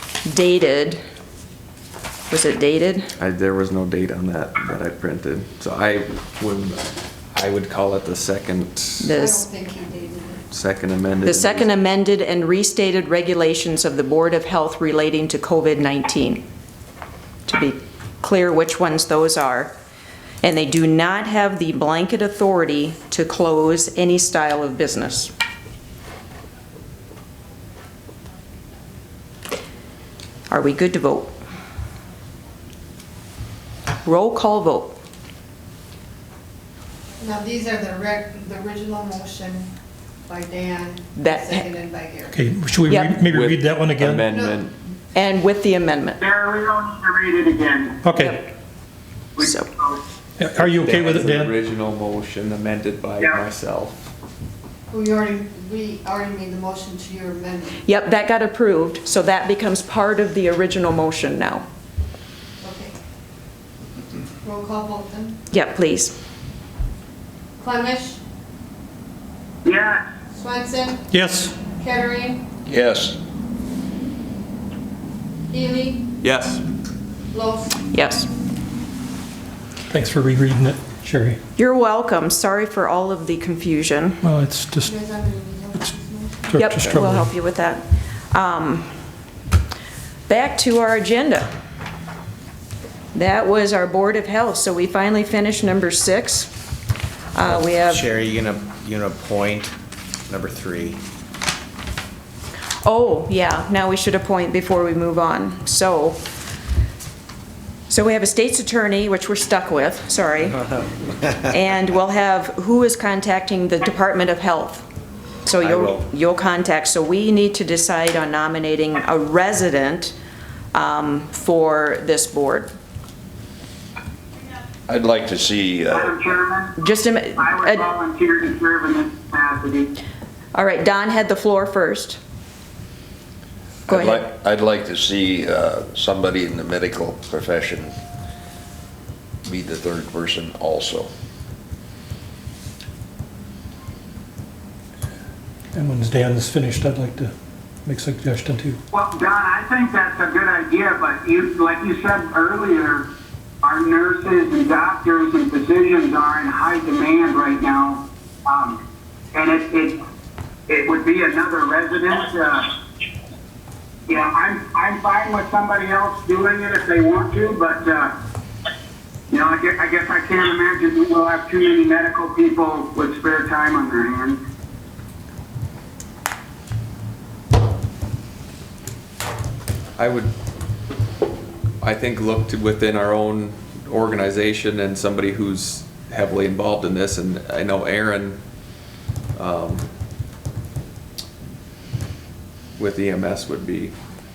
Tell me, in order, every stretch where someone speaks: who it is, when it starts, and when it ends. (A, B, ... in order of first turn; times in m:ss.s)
0:00.2-0:01.0 A
0:02.3-0:03.1 A
0:03.2-0:09.1 B
0:09.0-0:09.4 A
0:09.1-0:10.4 C
0:10.5-0:11.7 B
0:11.2-0:16.4 A
0:17.5-0:19.7 A
0:20.4-0:25.3 A
0:30.5-0:31.3 A
0:34.0-0:35.0 A
0:37.2-0:39.7 C
0:40.3-0:42.4 C
0:41.2-0:41.7 A
0:42.3-0:44.2 D
0:42.9-0:43.1 A
0:43.2-0:44.8 B
0:44.3-0:44.6 C
0:45.1-0:46.2 A
0:46.2-0:48.0 E
0:48.0-0:48.4 D
0:48.2-0:48.5 A
0:49.4-0:50.0 E
0:49.4-0:49.7 A
0:50.4-0:51.5 D
0:50.5-0:54.0 B
0:54.9-0:57.8 C
0:57.8-1:01.6 A
1:02.6-1:03.0 C
1:04.4-1:05.4 C
1:05.5-1:06.2 A
1:07.6-1:08.2 C
1:09.6-1:10.0 E
1:10.3-1:11.1 C
1:11.1-1:11.6 D
1:11.7-1:12.4 C
1:12.7-1:13.2 F
1:15.5-1:16.0 C
1:16.2-1:16.6 B
1:17.3-1:17.8 C
1:17.9-1:18.3 A
1:19.9-1:21.4 D
1:21.6-1:24.2 A
1:24.2-1:24.9 D
1:24.8-1:26.6 C
1:26.5-1:27.3 D
1:26.6-1:28.9 A
1:30.3-1:31.5 A
1:33.1-1:36.5 A
1:37.4-1:38.0 A
1:37.6-1:39.8 G
1:40.3-1:41.0 G
1:42.8-1:46.2 A
1:47.9-1:50.6 A
1:51.5-1:54.9 A
1:55.5-2:00.1 A
1:55.6-1:55.9 G
2:00.7-2:02.7 A
2:04.9-2:06.2 F
2:05.9-2:06.8 E
2:06.8-2:07.8 A
2:07.4-2:09.9 E
2:10.5-2:12.2 A
2:13.9-2:17.9 F
2:13.9-2:14.2 A
2:19.4-2:21.1 F
2:25.7-2:27.3 D
2:27.8-2:28.8 D
2:28.9-2:33.1 E
2:33.6-2:38.8 E
2:39.3-2:40.0 E
2:40.7-2:42.7 E
2:44.1-2:48.1 E
2:49.3-2:54.4 E
3:00.0-3:00.3 B
3:01.8-3:08.4 B
3:09.4-3:09.9 B
3:12.8-3:13.9 B